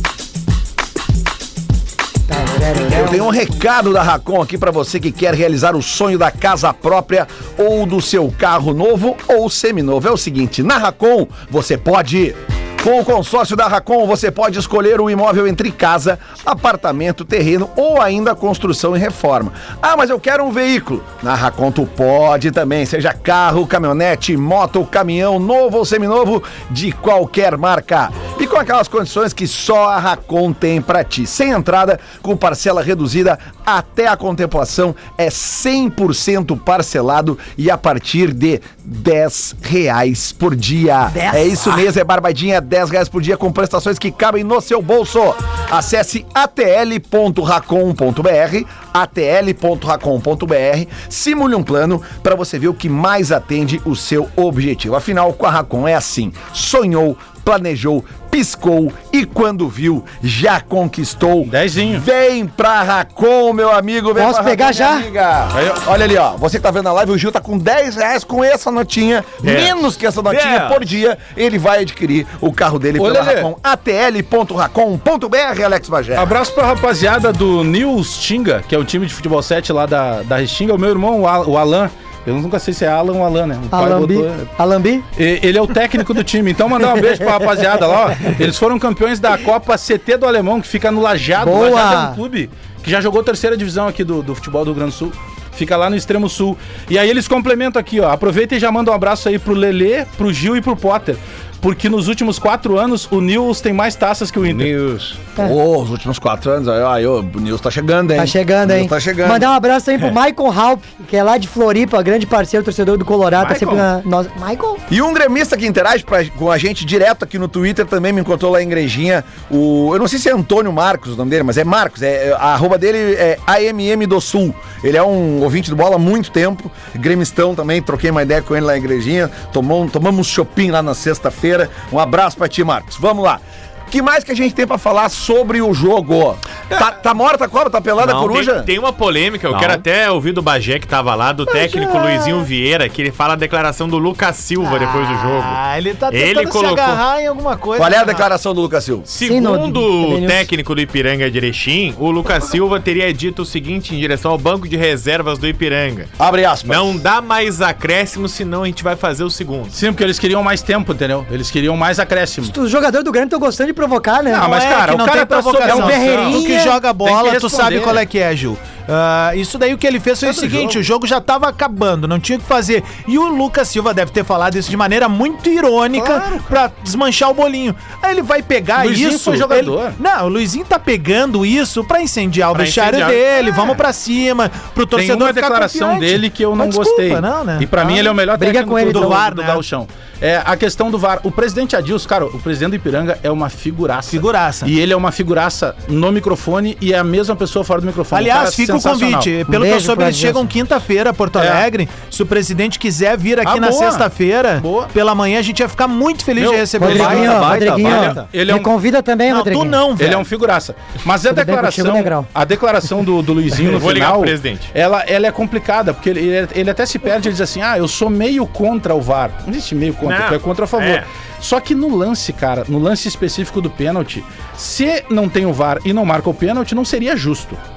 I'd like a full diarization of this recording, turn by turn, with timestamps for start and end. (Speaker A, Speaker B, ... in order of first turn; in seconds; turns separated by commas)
Speaker A: 2.3-3.3, Speaker B: 2.8-76.3, Speaker A: 41.1-41.8, Speaker C: 61.5-62.0, Speaker A: 64.1-65.1, Speaker C: 65.5-65.8, Speaker D: 69.4-69.7, Speaker E: 70.3-70.8, Speaker C: 73.0-73.5, Speaker C: 76.1-84.5, Speaker A: 83.7-85.0, Speaker C: 85.2-104.7, Speaker A: 91.4-92.2, Speaker E: 104.4-105.2, Speaker B: 105.4-109.5, Speaker A: 108.2-114.8, Speaker C: 113.3-113.9, Speaker B: 114.9-138.7, Speaker E: 138.0-138.3, Speaker D: 138.1-147.0, Speaker E: 139.5-139.8, Speaker F: 141.9-142.1, Speaker F: 144.6-148.3, Speaker B: 147.8-149.1, Speaker D: 149.1-156.1, Speaker A: 149.2-150.5, Speaker B: 156.2-157.0, Speaker D: 156.6-159.8, Speaker C: 159.7-162.5, Speaker A: 162.4-164.5, Speaker C: 164.3-168.0, Speaker F: 164.3-187.7, Speaker A: 165.6-166.8, Speaker C: 170.2-170.8, Speaker C: 175.9-176.5, Speaker C: 178.8-180.0, Speaker D: 182.5-183.7, Speaker C: 184.9-199.3, Speaker A: 187.8-189.2, Speaker F: 188.8-189.6, Speaker F: 194.1-194.7, Speaker F: 198.1-207.4, Speaker A: 199.4-200.4, Speaker C: 201.3-201.7, Speaker C: 203.4-204.9, Speaker C: 206.4-208.7, Speaker A: 206.8-209.9, Speaker E: 206.8-208.3, Speaker F: 209.3-210.2, Speaker C: 210.0-227.6, Speaker A: 211.3-212.3, Speaker D: 213.6-214.7, Speaker D: 220.0-221.1